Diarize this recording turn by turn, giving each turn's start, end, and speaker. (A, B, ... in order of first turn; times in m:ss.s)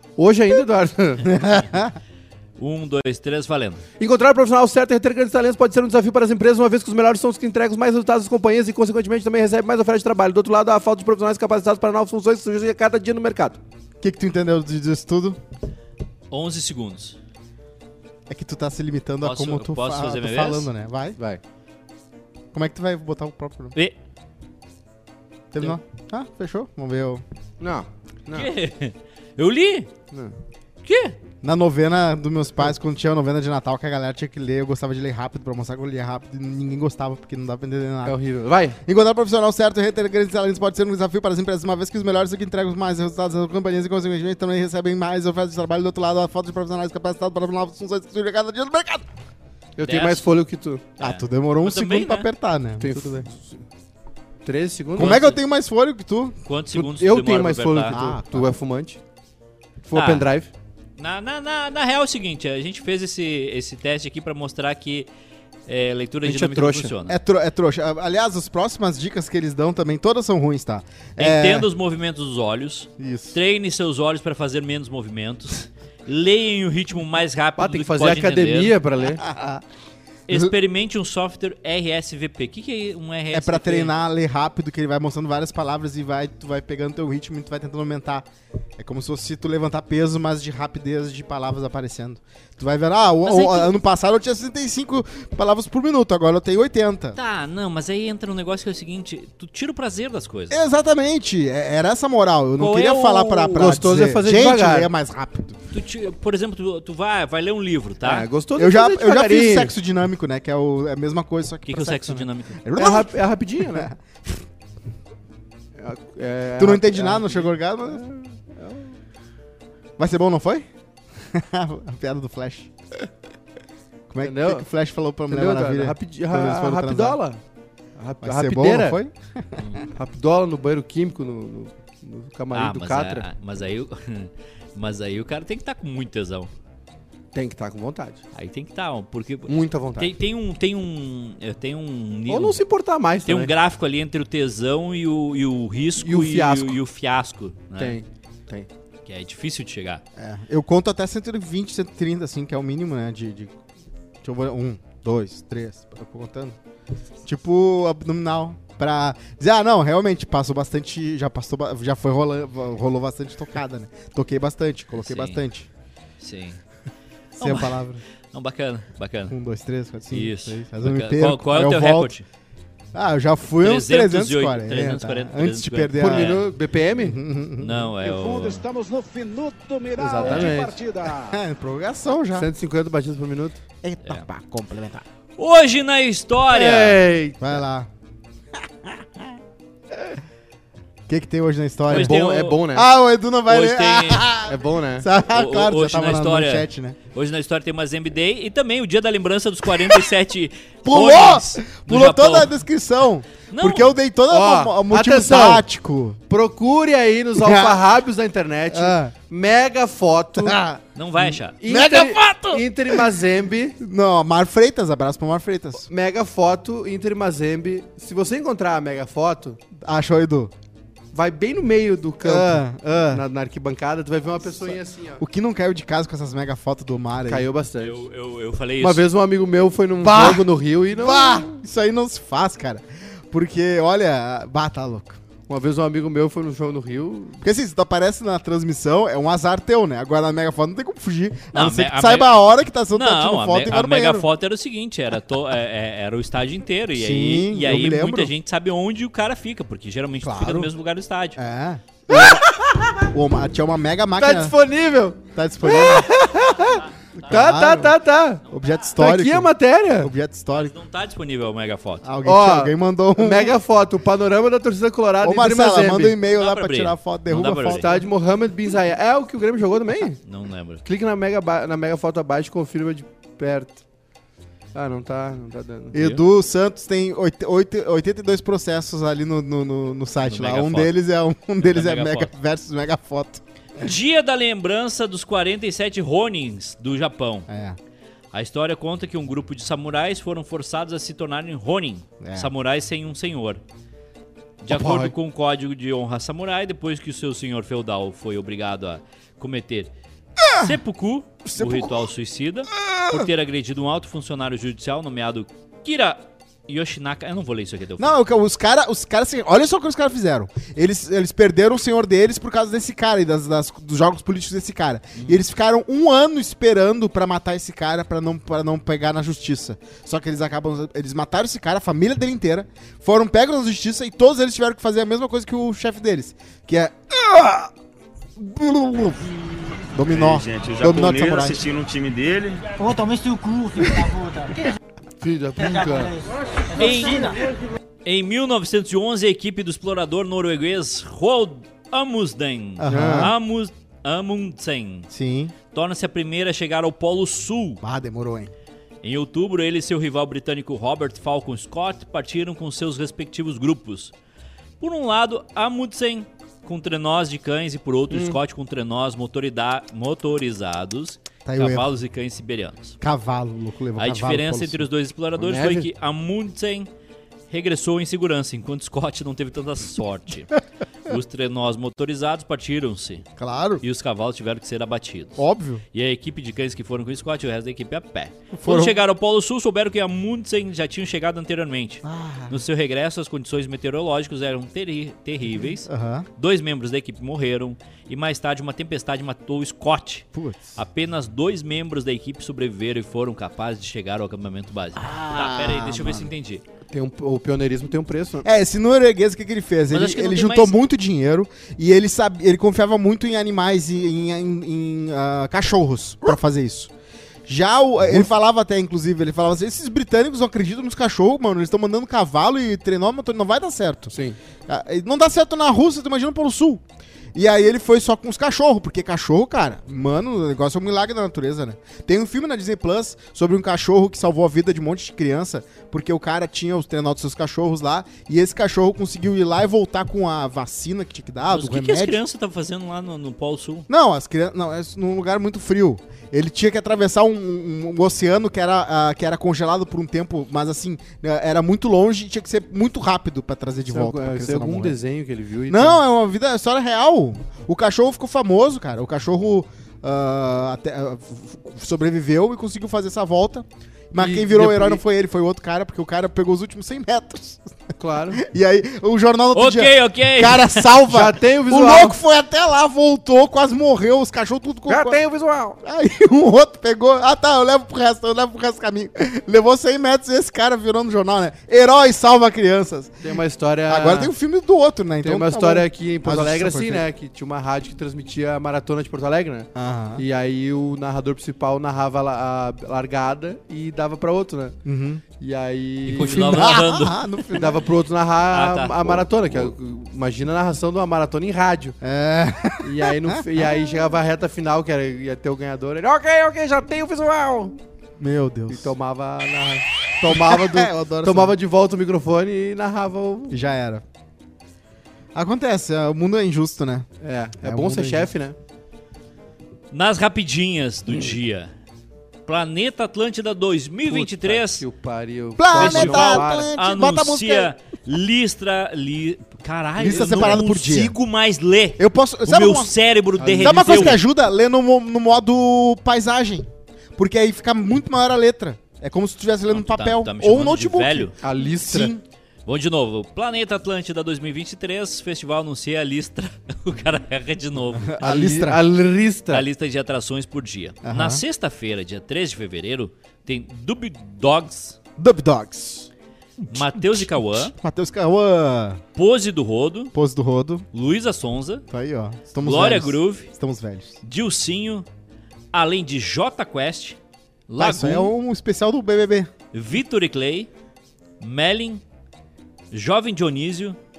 0:00.2-0:01.3 A
0:01.2-0:02.0 B
0:02.6-0:03.8 C
0:04.0-0:13.6 A
0:14.0-0:15.4 B
0:16.3-0:17.2 C
0:18.3-0:21.2 B
0:19.2-0:20.7 C
0:22.5-0:23.7 B
0:25.5-0:27.2 B
0:27.6-0:28.5 A
0:28.3-0:29.9 C
0:30.8-0:31.2 C
0:31.4-0:38.2 B
0:38.0-0:38.8 A
0:38.8-0:49.1 B
0:49.8-0:50.8 A
0:49.8-0:50.3 C
0:51.0-0:52.3 C
0:51.0-0:53.3 B
0:52.8-0:53.6 A
0:54.4-0:55.3 A
0:55.0-0:56.4 B
0:55.0-0:55.4 C
0:56.5-0:58.0 C
0:56.7-0:59.0 A
0:57.9-0:58.5 B
0:59.8-1:00.5 A
0:59.9-1:00.3 C
1:01.0-1:05.1 C
1:05.7-1:07.2 C
1:06.2-1:06.9 A
1:07.1-1:11.7 B
1:11.2-1:18.8 C
1:13.0-1:13.4 B
1:17.6-1:19.2 A
1:19.0-1:19.6 B
1:20.3-1:23.9 C
1:20.3-1:20.5 B
1:23.3-1:28.3 B
1:28.8-1:37.2 B
1:33.2-1:33.7 C
1:37.2-1:40.6 C
1:40.5-1:45.6 B
1:42.6-1:43.7 C
1:43.6-1:44.9 A
1:45.7-1:48.3 C
1:48.0-1:49.7 A
1:48.6-1:53.2 B
1:51.7-1:52.6 C
1:52.8-1:53.9 A
1:53.7-1:54.4 B
1:55.8-1:58.9 A
1:56.6-1:58.1 B
2:00.0-2:00.7 B
2:01.2-2:02.7 B
2:04.1-2:07.2 B
2:04.2-2:04.7 A
2:05.3-2:07.4 A
2:08.0-2:09.0 A
2:08.2-2:09.8 B
2:09.6-2:09.8 C
2:09.9-2:13.3 A
2:12.5-2:16.5 C
2:17.3-2:18.2 A
2:18.3-2:22.6 C
2:19.5-2:20.1 A
2:22.3-2:23.5 A
2:23.3-2:28.0 C
2:26.0-2:26.8 A
2:27.8-2:28.7 A
2:29.1-2:30.0 C
2:30.2-2:33.6 B
2:34.2-2:36.6 B
2:37.2-2:45.7 B
2:45.0-2:45.4 C
2:46.2-2:46.6 C
2:47.4-2:48.0 B
2:47.4-2:49.4 C
2:49.3-2:52.1 B
2:50.1-2:52.2 C
2:52.9-2:56.4 B
2:53.6-2:56.4 C
2:56.0-2:57.2 A
2:57.0-2:57.9 B
2:57.6-2:58.6 C
2:58.0-3:01.4 D
3:00.0-3:00.8 A
3:01.2-3:02.5 B
3:02.3-3:03.6 A
3:03.8-3:05.0 B
3:05.4-3:07.0 C
3:06.5-3:07.6 A
3:07.4-3:07.9 B
3:08.6-3:09.3 B
3:11.1-3:17.0 B
3:11.9-3:12.6 C
3:11.9-3:12.9 A
3:13.5-3:14.3 C
3:14.5-3:15.1 A
3:15.3-3:22.5 C
3:20.8-3:26.2 B
3:23.5-3:24.0 C
3:24.3-3:25.7 A
3:26.3-3:30.6 A
3:27.4-3:27.8 B
3:28.7-3:29.1 B
3:30.4-3:33.0 B
3:31.0-3:31.6 C
3:31.6-3:33.8 A
3:33.8-3:35.9 B
3:35.9-3:39.6 A
3:39.8-3:40.5 B
3:41.1-3:45.2 A
3:42.2-3:43.2 B
3:44.6-3:47.5 B
3:47.3-3:48.0 A
3:47.8-3:49.0 C
3:48.8-3:51.5 A
3:50.0-3:55.2 B
3:55.5-3:57.4 A
3:57.4-4:04.3 B
4:01.5-4:02.4 C
4:02.9-4:11.4 C
4:07.0-4:08.3 B
4:10.2-4:10.7 B
4:11.4-4:12.4 B
4:12.1-4:13.0 A
4:13.0-4:14.6 B
4:14.2-4:18.4 A
4:15.3-4:16.1 B
4:16.4-4:17.4 C
4:17.2-4:18.0 B
4:18.5-4:20.7 B
4:18.5-4:18.8 C
4:19.0-4:20.1 A
4:20.5-4:22.1 C
4:22.0-4:23.5 B
4:22.2-4:26.2 A
4:25.2-4:28.0 B
4:26.3-4:27.9 C
4:27.8-4:30.2 A
4:30.2-4:30.8 C
4:30.8-4:33.8 A
4:34.8-4:36.0 A
4:35.9-4:43.4 B
4:36.0-4:36.2 C
4:40.2-4:41.0 C
4:41.6-4:42.3 C
4:43.8-4:47.5 C
4:47.5-4:47.8 B
4:48.3-4:53.6 C
4:52.2-4:52.5 B
4:54.6-4:59.9 C
4:54.7-4:55.1 A
5:00.4-5:00.8 B
5:00.5-5:08.2 C
5:01.5-5:02.0 B
5:02.8-5:03.3 B
5:08.0-5:27.7 B
5:28.4-5:29.4 B
5:29.9-5:31.7 B
5:30.1-5:32.7 E
5:32.8-5:34.7 F
5:35.2-5:36.1 A
5:35.6-5:37.5 F
5:36.8-5:37.4 C
5:38.0-5:45.1 C
5:42.8-5:43.3 B
5:42.9-5:43.3 A
5:45.1-5:45.5 B
5:45.7-5:47.8 C
5:47.8-5:48.5 B
5:49.0-5:54.1 C
5:54.8-6:03.0 C
5:58.1-5:58.4 A
6:01.5-6:01.9 B
6:03.0-6:04.8 B
6:04.0-6:06.9 C
6:05.4-6:05.9 A
6:07.5-6:13.3 C
6:13.4-6:13.8 B
6:13.8-6:15.4 C
6:15.4-6:15.8 B
6:15.9-6:36.6 C
6:18.6-6:19.0 B
6:22.0-6:22.6 B
6:25.8-6:26.3 B
6:30.4-6:30.8 B
6:35.0-6:36.3 B
6:36.9-6:38.5 A
6:38.4-6:46.9 B
6:39.9-6:40.8 C
6:47.5-6:54.2 B
6:54.1-6:54.4 A
6:54.7-6:56.8 B
6:57.4-7:12.2 B
7:11.5-7:13.9 C
7:13.9-7:25.0 B
7:23.9-7:26.0 A
7:25.7-7:37.7 B
7:34.2-7:35.0 A
7:38.0-7:38.4 A
7:38.3-7:45.2 B
7:39.5-7:41.0 C
7:41.1-7:42.2 A
7:44.9-7:45.8 A
7:45.8-7:57.0 B
7:53.2-7:54.3 A
7:55.2-8:04.8 A
7:59.8-8:00.2 B
8:04.8-8:05.2 B
8:05.4-8:06.7 A
8:06.1-8:07.3 C
8:06.3-8:07.8 B
8:07.5-8:12.0 A
8:08.5-8:09.2 C
8:12.0-8:13.4 B
8:12.8-8:17.8 A
8:18.2-8:18.9 B
8:18.7-8:23.6 A
8:20.2-8:21.6 B
8:23.5-8:24.0 B
8:25.4-8:27.1 B
8:27.2-8:28.6 A
8:27.6-8:28.3 B
8:29.9-8:31.7 C
8:32.5-8:34.8 C
8:34.1-8:36.7 A
8:35.6-8:37.7 B
8:35.8-8:44.2 C
8:40.0-8:41.2 B
8:40.1-8:40.6 A
8:42.0-8:42.9 B
8:43.4-8:44.2 A
8:43.6-8:52.2 B
8:49.7-8:51.4 C
8:51.4-8:52.1 A
8:52.7-8:58.2 C
8:58.0-8:58.8 B
8:58.2-8:59.6 A
8:59.5-9:05.0 C
9:01.0-9:01.4 B
9:05.2-9:06.1 B
9:06.7-9:07.7 C
9:06.7-9:09.0 B
9:09.2-9:10.1 C
9:10.1-9:10.9 B
9:10.9-9:11.8 C
9:11.9-9:14.2 B
9:12.6-9:13.5 C
9:14.2-9:15.1 C
9:15.7-9:18.3 C
9:17.8-9:19.5 B
9:19.7-9:20.7 C
9:21.4-9:22.0 C
9:22.9-9:24.0 C